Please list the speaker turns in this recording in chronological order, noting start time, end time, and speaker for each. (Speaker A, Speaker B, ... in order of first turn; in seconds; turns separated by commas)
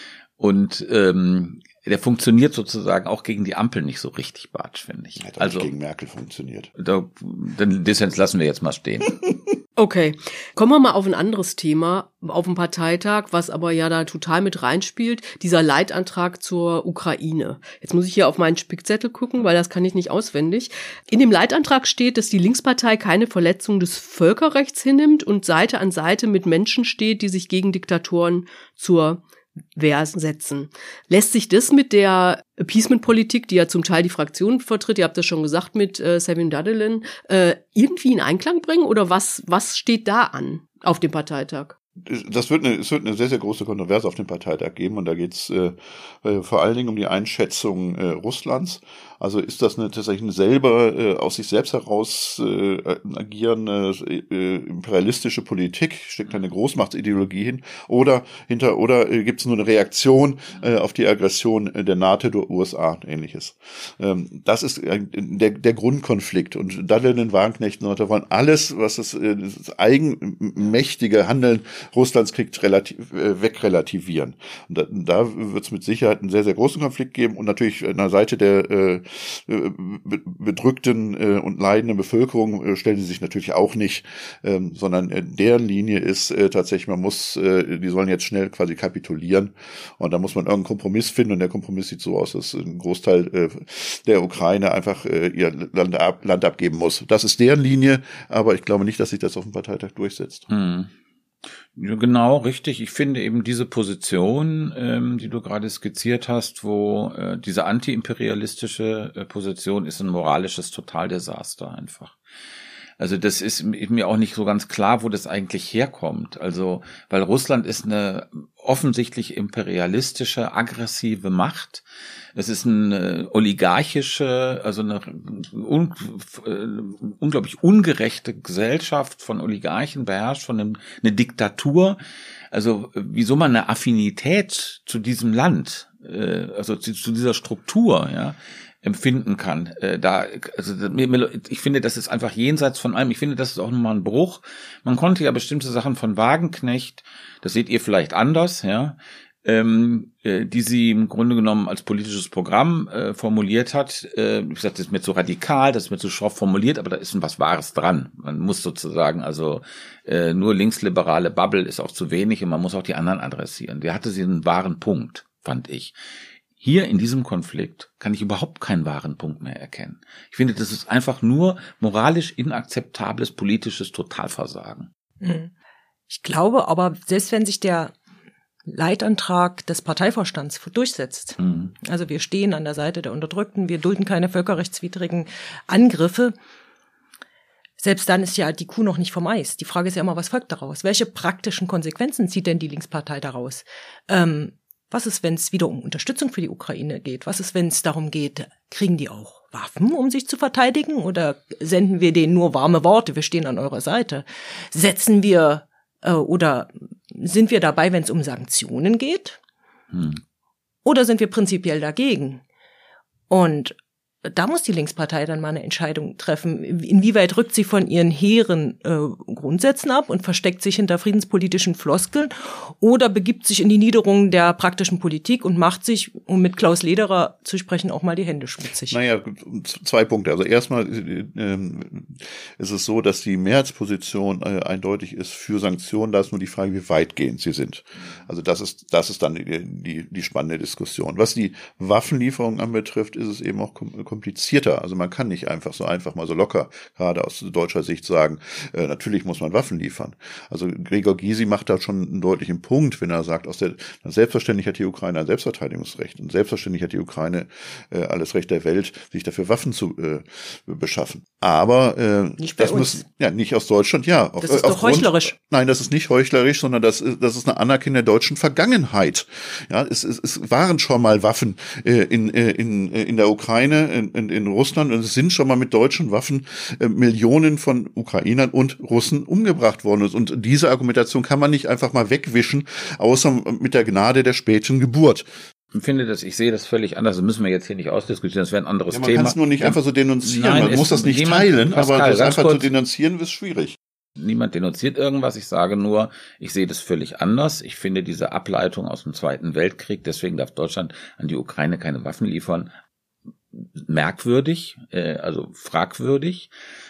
Speaker A: 0.4-5.7, Speaker B: 5.2-6.7, Speaker A: 6.8-9.2, Speaker C: 9.8-29.2, Speaker C: 29.7-41.8, Speaker B: 42.0-100.5, Speaker A: 100.5-100.9, Speaker A: 101.8-112.2, Speaker A: 113.0-121.8, Speaker A: 122.3-132.0, Speaker A: 132.5-165.9, Speaker A: 166.6-174.9, Speaker D: 175.2-175.5, Speaker D: 176.1-177.9, Speaker D: 178.7-186.3, Speaker A: 181.4-181.7, Speaker D: 187.8-209.4, Speaker A: 209.9-210.2, Speaker D: 210.8-212.4, Speaker D: 213.3-229.0, Speaker B: 228.9-285.3, Speaker D: 262.4-263.0, Speaker D: 264.4-265.3, Speaker A: 285.7-292.7, Speaker B: 288.9-293.8, Speaker A: 294.2-302.7, Speaker A: 303.5-306.5